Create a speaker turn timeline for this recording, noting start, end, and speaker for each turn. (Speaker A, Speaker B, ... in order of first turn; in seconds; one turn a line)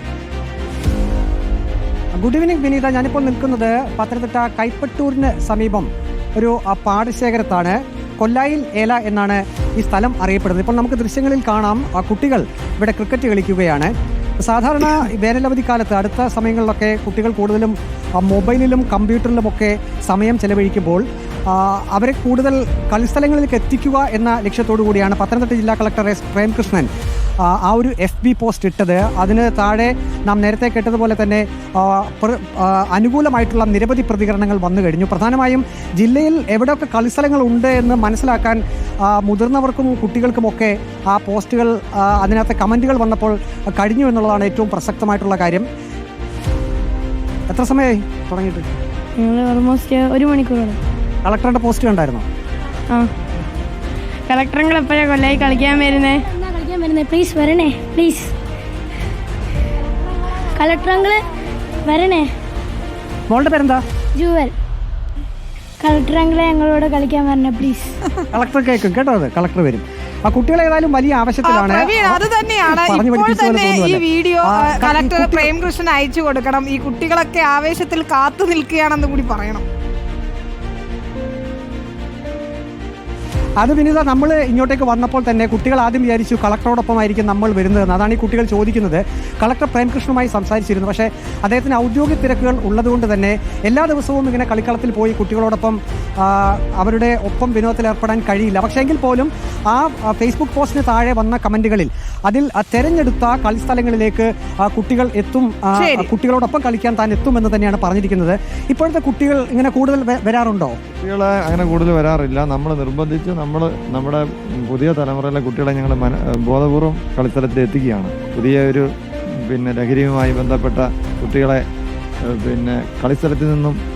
Speaker A: 2.1-13.9
Speaker A: 14.4-26.9
Speaker A: 27.4-45.7
Speaker A: 47.5-48.7
Speaker B: 49.2-50.8
Speaker A: 51.2-52.2
Speaker B: 54.3-56.2
Speaker C: 55.6-58.3
Speaker C: 60.5-61.2
Speaker C: 61.9-62.3
Speaker A: 63.3-63.8
Speaker C: 64.1-64.5
Speaker C: 65.8-67.9
Speaker A: 68.3-75.5
Speaker D: 71.4-79.6
Speaker A: 83.6-110.8
Speaker D: 105.7-106.1
Speaker E: 110.9-118.8
Speaker E: 119.5-121.6
Speaker E: 122.3-123.8